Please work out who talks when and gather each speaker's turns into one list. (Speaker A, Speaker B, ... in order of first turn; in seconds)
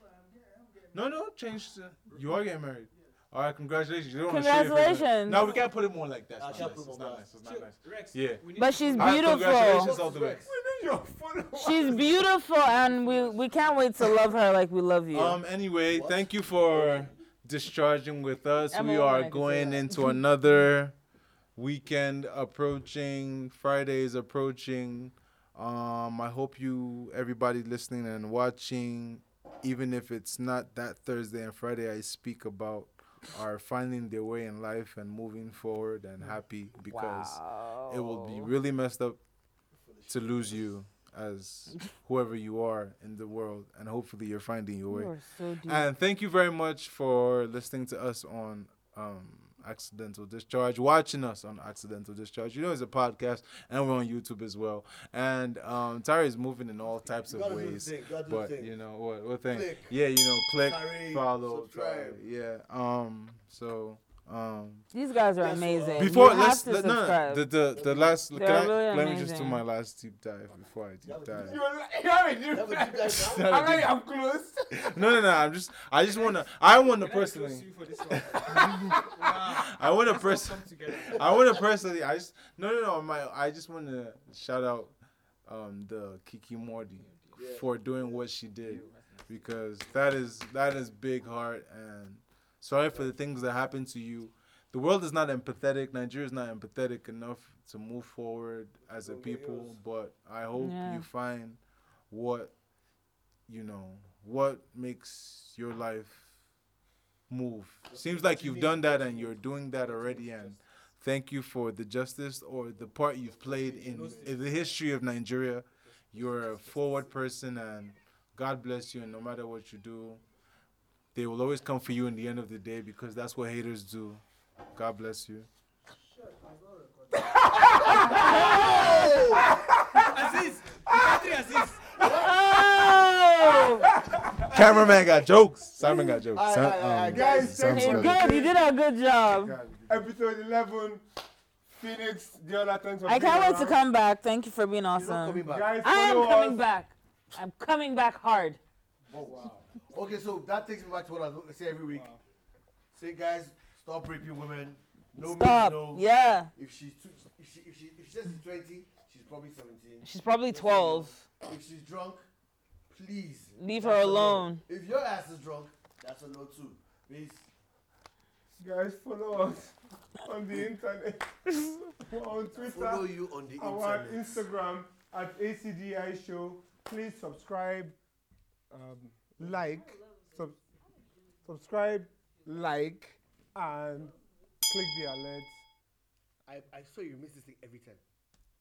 Speaker A: 0.1-0.9, 2.1-2.4, 5.3-5.7, 6.5-6.8, 7.3-9.5, 12.0-14.1, 76.0-81.6, 88.6-89.6, 109.9-110.6, 113.8-114.8, 115.8-117.2, 125.9-127.5, 130.0-131.9, 149.1-150.1, 151.9-152.2, 179.4-181.4
Speaker B: 0.9-8.4, 9.0-10.4, 15.1-20.9, 21.6-39.2, 40.1-45.1, 45.6-64.8, 66.0-71.6, 73.1-73.9, 74.7-84.9, 85.5-102.5, 103.5-106.3, 107.3-120.2, 121.1-124.2, 124.7-125.5, 134.5-138.2, 139.3-139.9
Speaker C: 4.2-5.5, 8.6-9.9, 11.6-15.4, 18.7-20.6, 36.8-38.5, 44.9-45.9, 64.9-67.4, 68.3-69.6, 100.6-101.0, 128.2-128.8, 132.0-133.9, 137.7-139.5, 143.1-148.6, 155.2-156.5, 160.0-161.2, 163.6-164.6
Speaker D: 6.4-7.3, 9.3-10.5, 15.9-17.2, 39.8-40.7, 57.3-58.7, 59.5-59.9, 60.6-62.2, 65.3-66.4, 67.7-68.2, 71.0-71.7, 72.5-73.6, 87.3-88.2, 98.9-99.8, 107.9-110.5, 113.2-114.4, 127.5-129.5, 132.0-133.0, 134.6-135.0, 135.8-137.8, 144.9-145.8, 149.1-152.1, 152.9-162.2, 162.9-167.5, 172.6-174.4, 186.4-188.0
Speaker E: 10.4-12.1, 71.4-75.0, 127.3-128.6, 129.3-131.8, 133.7-134.9, 137.1-138.5, 139.9-141.0, 141.7-143.8, 145.4-146.6, 168.6-177.9, 178.7-180.6, 181.4-184.1, 184.7-185.6